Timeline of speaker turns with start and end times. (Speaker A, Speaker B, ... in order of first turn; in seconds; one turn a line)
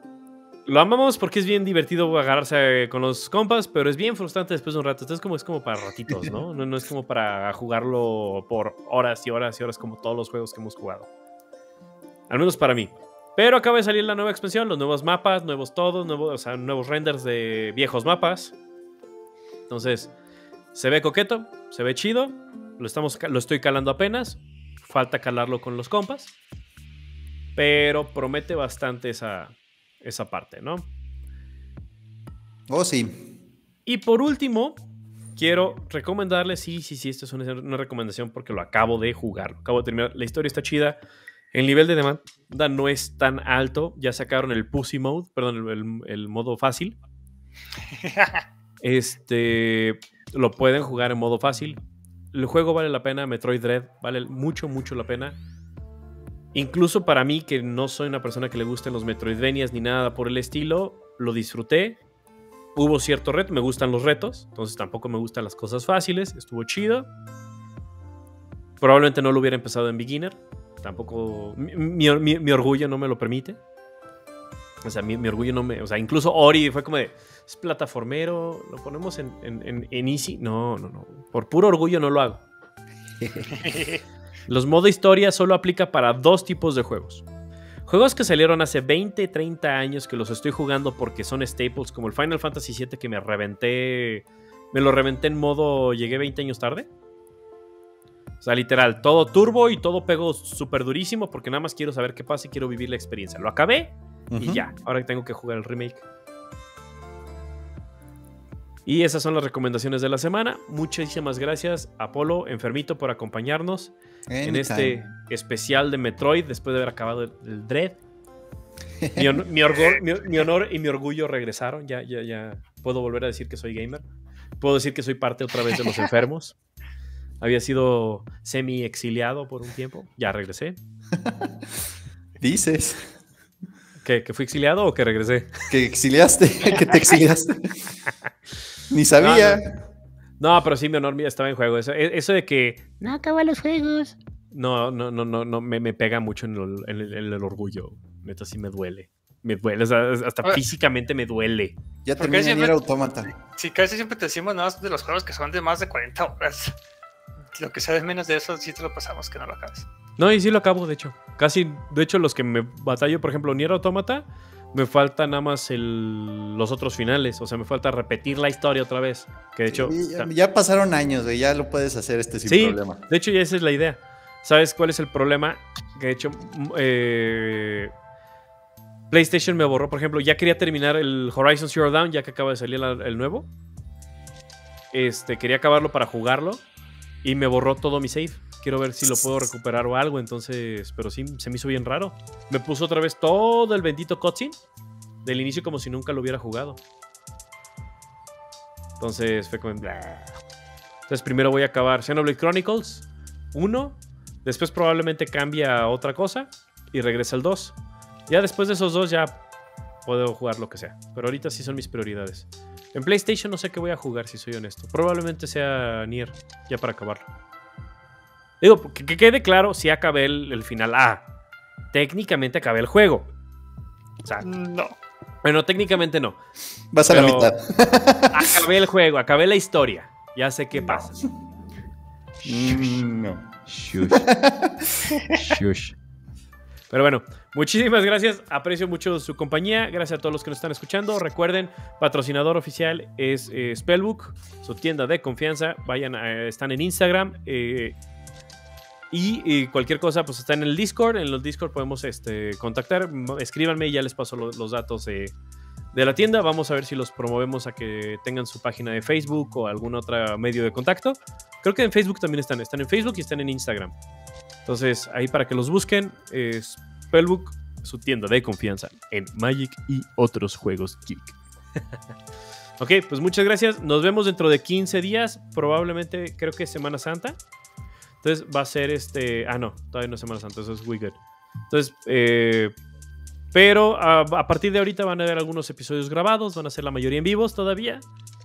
Speaker A: 0.7-11.1
Speaker A: 12.3-18.5
Speaker A: 19.7-20.1
Speaker A: 20.7-26.3
Speaker A: 27.6-30.9
Speaker B: 32.7-33.3
Speaker A: 33.9-34.8
Speaker A: 35.4-41.0
Speaker A: 41.5-47.0
Speaker C: 47.9-48.4
Speaker A: 48.8-51.8
Speaker A: 52.3-55.4
Speaker A: 56.5-62.0
Speaker A: 62.7-67.1
Speaker A: 68.8-73.6
Speaker A: 74.8-82.4
Speaker B: 83.2-83.6
Speaker C: 83.5-84.0
Speaker A: 84.5-87.2
Speaker A: 87.9-96.9
Speaker A: 98.4-106.0
Speaker B: 104.3-104.6
Speaker A: 108.8-118.0
Speaker B: 114.3-115.0
Speaker B: 119.0-119.4
Speaker A: 119.2-124.0
Speaker C: 119.7-120.0
Speaker A: 124.6-126.5
Speaker A: 127.4-130.8
Speaker B: 131.1-131.9
Speaker B: 132.4-133.1
Speaker A: 134.0-135.7
Speaker B: 135.7-137.9
Speaker B: 138.9-139.6
Speaker A: 139.2-139.6
Speaker A: 140.4-151.7
Speaker B: 152.0-153.3
Speaker C: 152.2-152.8
Speaker C: 153.4-156.8
Speaker C: 157.5-159.9
Speaker A: 160.2-170.3
Speaker B: 169.7-173.0
Speaker A: 172.4-177.9
Speaker A: 179.1-183.5
Speaker A: 184.9-186.6
Speaker A: 187.2-194.6
Speaker A: 195.2-196.8
Speaker A: 199.0-200.3
Speaker A: 201.1-207.7
Speaker A: 208.3-209.4
Speaker A: 210.1-217.2
Speaker A: 218.6-221.2
Speaker A: 221.9-223.3
Speaker C: 224.4-224.9
Speaker A: 225.4-226.4
Speaker B: 226.9-228.6
Speaker A: 227.1-227.5
Speaker A: 228.3-231.2
Speaker B: 232.4-235.2
Speaker A: 233.7-234.3
Speaker A: 235.3-235.9
Speaker A: 236.9-248.0
Speaker A: 249.1-255.3
Speaker A: 255.9-263.9
Speaker A: 264.6-271.4
Speaker A: 272.8-277.4
Speaker A: 278.2-281.2
Speaker A: 281.7-282.7
Speaker A: 283.5-288.0